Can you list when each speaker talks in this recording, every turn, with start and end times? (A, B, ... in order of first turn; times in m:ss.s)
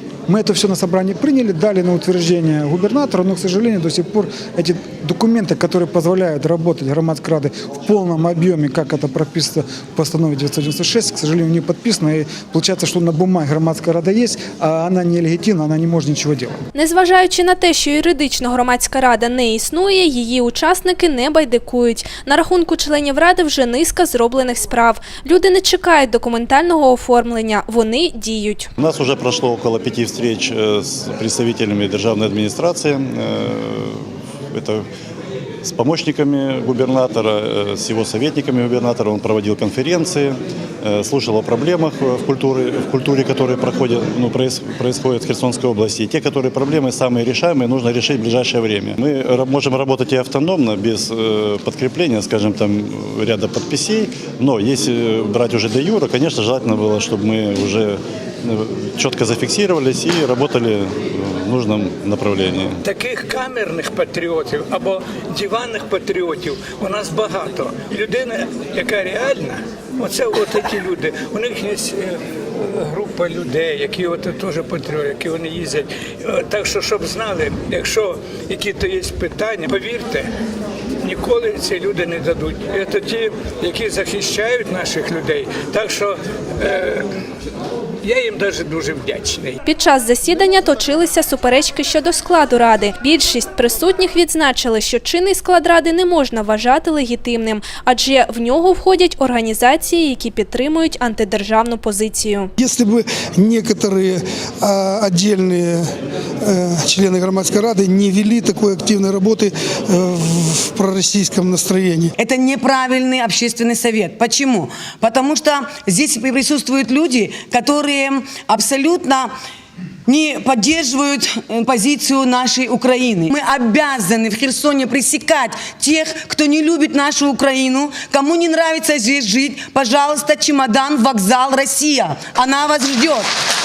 0:00.3-0:16.6 A
0:16.7-0:28.7 B
0:28.8-0:34.8 C
0:35.6-1:02.8 C
1:02.8-1:20.3 D
1:21.0-1:27.1 D
1:28.0-1:29.6 D
1:29.6-1:42.5 B
1:42.6-1:45.9 E
1:46.4-1:52.1 E
1:52.2-1:59.3 F
2:00.0-2:13.3 F